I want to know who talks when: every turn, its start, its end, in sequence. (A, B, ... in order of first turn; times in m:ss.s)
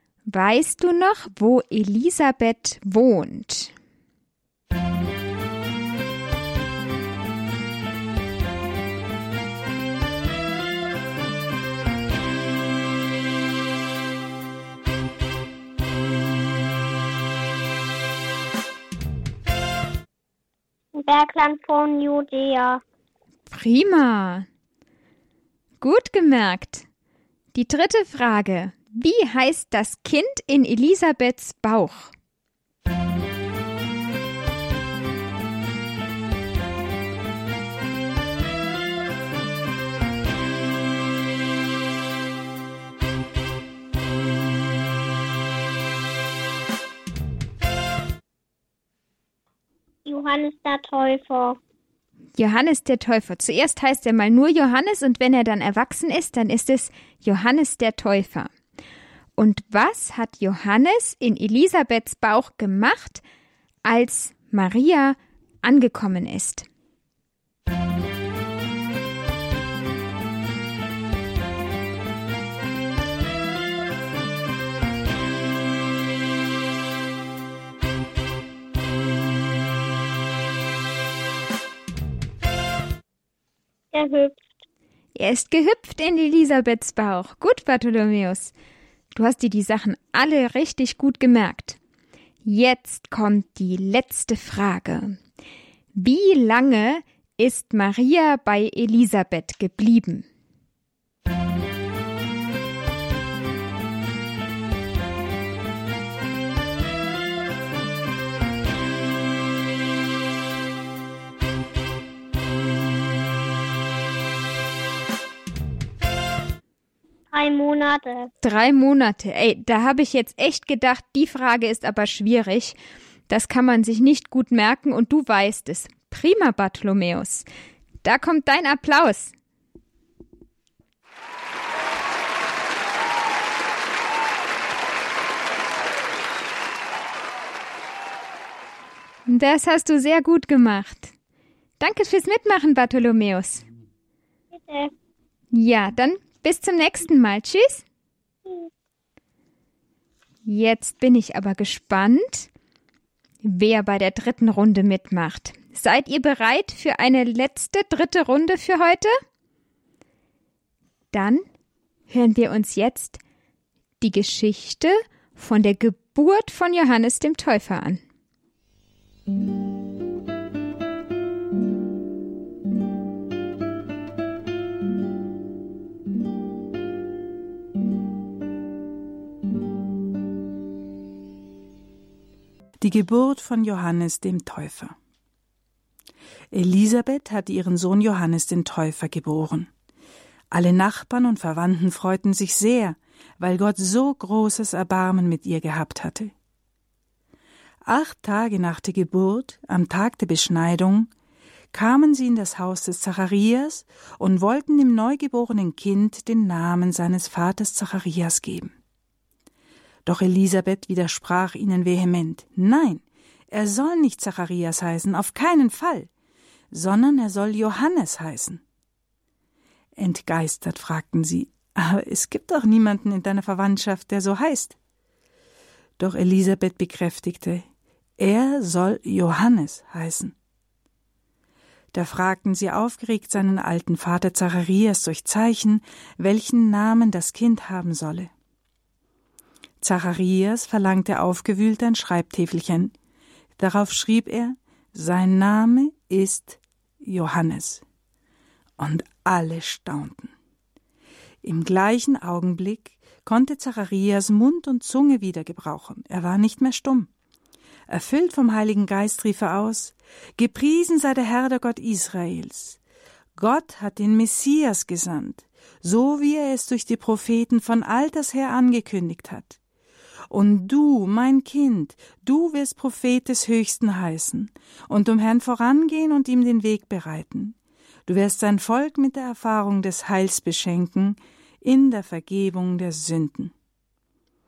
0:00.3-0:03.7 A
0:20.9-0:22.8 B
0:23.5-0:24.5 A
0:25.8-0:26.9 A
0:27.5-0:32.1 A
0:50.1-0:51.6 B
0:52.4-0:58.5 A
0:59.4-1:03.2 A
1:03.8-1:06.7 A
1:23.9-1:24.4 B
1:25.2-1:28.5 A
1:29.1-1:31.8 A
1:32.4-1:35.2 A
1:36.0-1:40.3 A
1:57.3-1:58.3 B
1:58.4-2:02.8 A
2:03.3-2:07.5 A
2:08.0-2:09.3 A
2:19.3-2:21.1 A
2:21.8-2:23.6 A
2:24.6-2:24.9 B
2:25.5-2:27.8 A
2:30.5-2:32.5 A
2:33.4-2:39.1 A
2:41.1-2:41.4 A
2:42.1-2:43.2 A
2:44.0-2:48.0 A
3:02.8-3:05.0 C
3:06.5-3:09.7 C
3:10.5-3:16.3 C
3:17.9-3:21.1 C
3:21.7-3:28.7 C
3:30.1-3:36.1 C
3:36.7-3:38.6 C
3:40.0-3:44.8 C
3:46.0-3:47.7 C
3:48.2-3:50.4 C
3:51.9-3:58.3 C
3:59.8-4:02.9 C
4:03.6-4:07.8 C
4:08.8-4:10.3 C
4:11.4-4:17.1 C
4:17.9-4:22.8 C
4:23.4-4:29.6 C
4:30.3-4:37.6 C
4:38.1-4:43.5 C